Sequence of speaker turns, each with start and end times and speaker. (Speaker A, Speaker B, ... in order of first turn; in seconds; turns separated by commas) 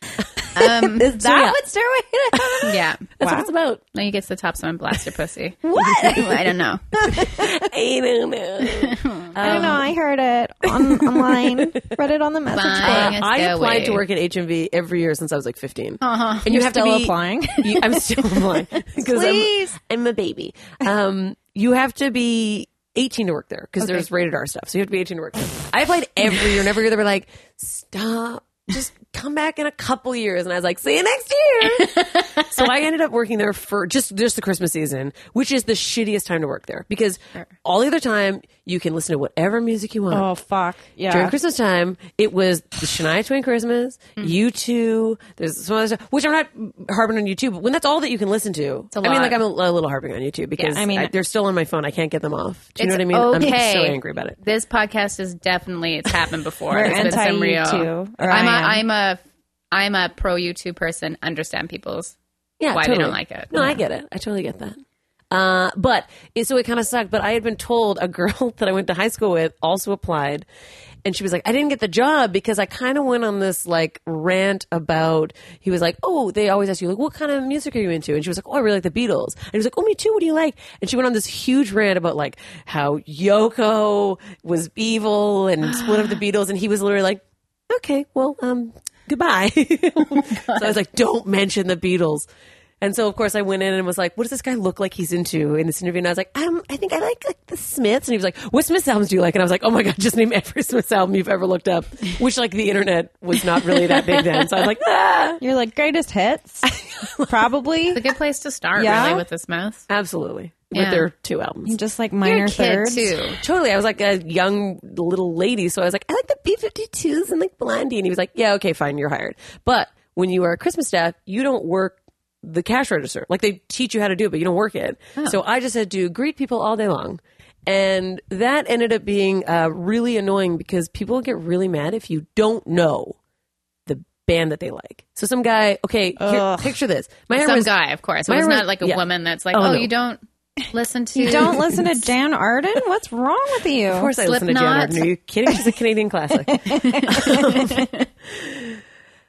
Speaker A: 0.6-1.1, Speaker B: 0.8-3.5, Speaker C: 1.0-1.6, Speaker C: 2.3-3.8, Speaker A: 2.6-3.0, Speaker A: 3.9-6.8, Speaker B: 5.6-7.6, Speaker C: 5.8-6.3, Speaker C: 7.0-9.9, Speaker A: 8.6-9.8, Speaker B: 9.4-13.2, Speaker C: 10.7-11.8, Speaker A: 12.5-14.0, Speaker C: 12.8-40.3, Speaker A: 16.0-16.5, Speaker B: 16.5-19.8, Speaker A: 31.8-32.5, Speaker B: 40.1-41.4, Speaker C: 41.1-54.4, Speaker A: 48.9-49.4, Speaker B: 50.7-51.1, Speaker A: 52.8-62.2, Speaker B: 56.7-58.8, Speaker C: 62.6-70.5, Speaker A: 62.7-63.8, Speaker C: 71.0-92.3, Speaker A: 90.3-90.7, Speaker C: 92.8-105.4, Speaker A: 103.5-104.5, Speaker B: 105.4-106.7, Speaker C: 106.7-107.5, Speaker B: 107.3-108.1, Speaker A: 107.9-109.9, Speaker B: 108.8-109.2, Speaker C: 109.9-111.8, Speaker A: 110.7-111.1, Speaker B: 111.7-113.2, Speaker A: 112.2-113.4, Speaker C: 113.4-133.2, Speaker C: 133.9-137.7, Speaker B: 136.2-136.7, Speaker A: 137.3-142.0, Speaker C: 138.3-139.9, Speaker B: 141.2-144.2, Speaker C: 143.9-148.8, Speaker A: 144.2-145.1, Speaker B: 146.5-147.7, Speaker A: 146.7-148.0